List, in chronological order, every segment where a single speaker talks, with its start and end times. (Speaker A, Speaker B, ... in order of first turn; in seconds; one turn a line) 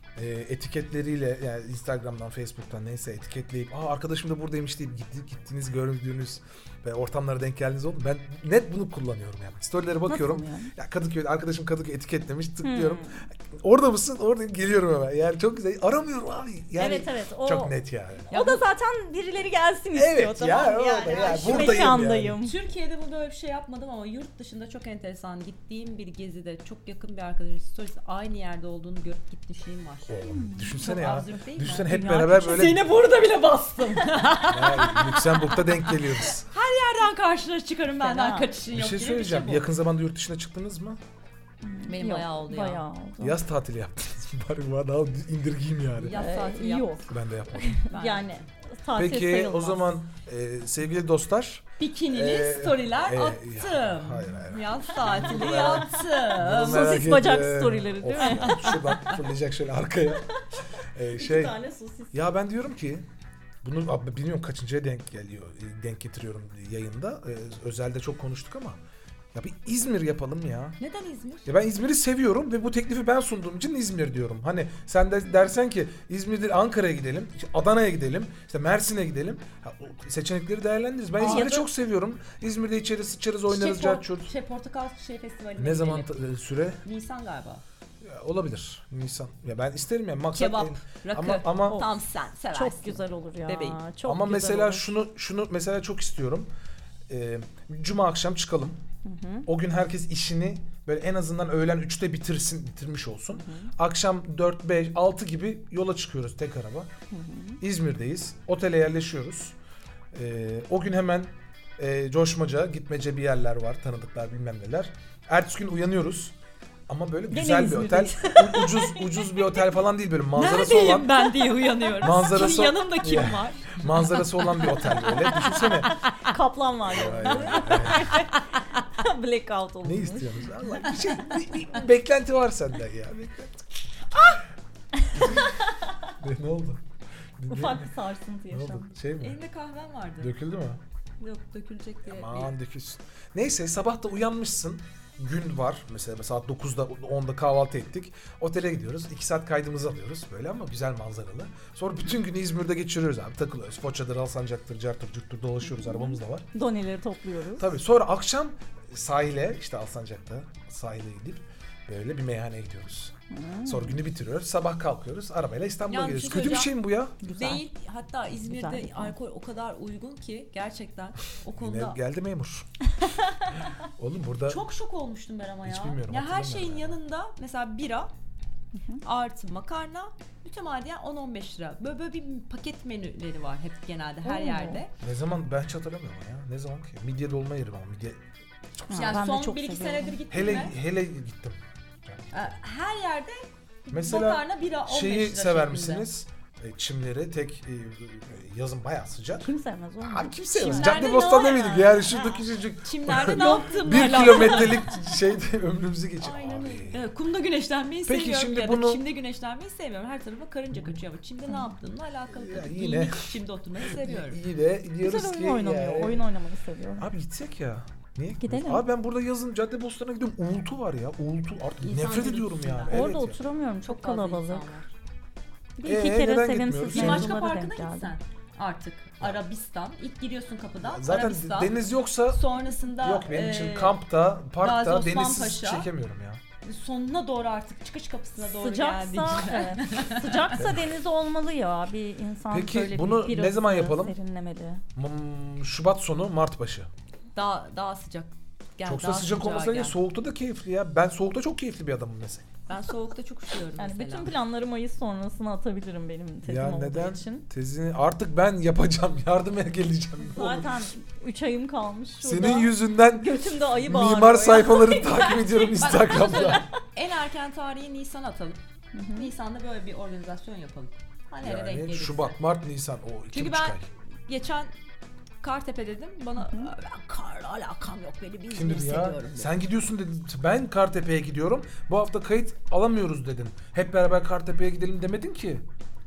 Speaker A: 0.1-18.3
Speaker B: 10.1-10.7
Speaker B: 12.6-13.2
Speaker B: 16.8-17.7
Speaker B: 18.3-22.5
Speaker C: 18.3-18.6
Speaker A: 19.9-22.4
Speaker C: 21.2-30.2
Speaker A: 30.1-32.9
Speaker B: 30.3-31.1
Speaker C: 30.7-39.7
Speaker B: 31.8-32.5
Speaker A: 34.5-36.5
Speaker B: 38.0-38.5
Speaker A: 38.7-41.0
Speaker B: 41.6-43.4
Speaker C: 41.9-42.8
Speaker A: 43.2-46.2
Speaker C: 46.0-47.0
Speaker B: 46.1-49.9
Speaker A: 47.1-47.8
Speaker C: 47.7-48.4
Speaker A: 48.9-60.3
Speaker C: 51.8-57.0
Speaker B: 56.5-58.7
Speaker C: 58.2-59.2
Speaker A: 60.9-61.6
Speaker B: 61.1-62.1
Speaker A: 62.1-63.0
Speaker A: 63.6-68.8
Speaker A: 69.3-70.8
Speaker C: 70.8-71.5
Speaker A: 71.5-84.3
Speaker C: 81.2-81.6
Speaker B: 81.2-81.7
Speaker C: 83.5-86.1
Speaker A: 85.6-86.8
Speaker C: 86.8-87.6
Speaker A: 88.0-91.9
Speaker C: 90.3-93.8
Speaker B: 92.5-94.9
Speaker A: 94.0-96.5
Speaker A: 97.1-98.8
Speaker B: 99.0-99.5
Speaker A: 99.5-106.9
Speaker B: 103.3-103.7
Speaker B: 107.1-107.6
Speaker A: 107.6-109.5
Speaker A: 110.1-116.3
Speaker A: 116.9-121.2
Speaker B: 117.3-118.7
Speaker C: 118.3-119.0
Speaker C: 120.3-126.0
Speaker A: 122.0-126.0
Speaker B: 126.2-130.5
Speaker A: 126.9-128.2
Speaker C: 127.3-128.2
Speaker A: 129.8-133.7
Speaker A: 135.1-135.5
Speaker A: 136.2-136.8
Speaker A: 137.4-137.9
Speaker B: 137.5-138.9
Speaker A: 138.5-139.4
Speaker C: 139.2-140.3
Speaker A: 140.2-140.8
Speaker C: 141.2-142.5
Speaker A: 142.0-156.4
Speaker B: 155.8-157.7
Speaker A: 157.6-167.2
Speaker B: 163.3-164.0
Speaker C: 165.9-166.7
Speaker B: 167.2-167.6
Speaker C: 167.2-172.0
Speaker B: 168.4-169.1
Speaker A: 171.6-172.7
Speaker A: 173.8-174.6
Speaker C: 174.5-178.1
Speaker A: 175.6-177.0
Speaker B: 178.7-179.0
Speaker C: 179.0-184.9
Speaker B: 184.2-184.8
Speaker A: 185.0-188.2
Speaker B: 188.9-190.2
Speaker C: 188.9-190.8
Speaker A: 190.3-192.5
Speaker C: 192.3-196.1
Speaker A: 193.9-199.5
Speaker B: 199.4-201.0
Speaker A: 200.0-207.1
Speaker C: 200.6-204.9
Speaker B: 203.4-204.8
Speaker C: 206.2-214.4
Speaker A: 208.1-209.0
Speaker A: 212.3-216.3
Speaker B: 215.0-217.1
Speaker A: 217.0-223.4
Speaker B: 218.4-218.8
Speaker C: 221.8-223.1
Speaker B: 222.9-224.7
Speaker C: 223.8-224.9
Speaker B: 225.8-228.1
Speaker A: 225.8-227.3
Speaker C: 226.9-231.8
Speaker A: 230.8-232.4
Speaker C: 232.3-234.0
Speaker A: 233.0-236.4
Speaker C: 234.6-235.9
Speaker C: 236.6-240.5
Speaker B: 238.4-244.8
Speaker A: 240.6-240.8
Speaker A: 242.5-244.2
Speaker A: 244.9-246.9
Speaker C: 247.3-250.0
Speaker A: 248.8-252.5
Speaker C: 252.7-254.3
Speaker B: 253.8-257.4
Speaker A: 256.4-260.8
Speaker B: 260.3-265.7
Speaker A: 262.2-266.6
Speaker C: 265.7-268.6
Speaker B: 266.4-266.6
Speaker B: 268.9-269.3
Speaker C: 269.1-272.4
Speaker A: 271.4-273.9
Speaker C: 273.3-274.7
Speaker C: 275.4-279.5
Speaker B: 276.4-276.7
Speaker A: 278.5-285.6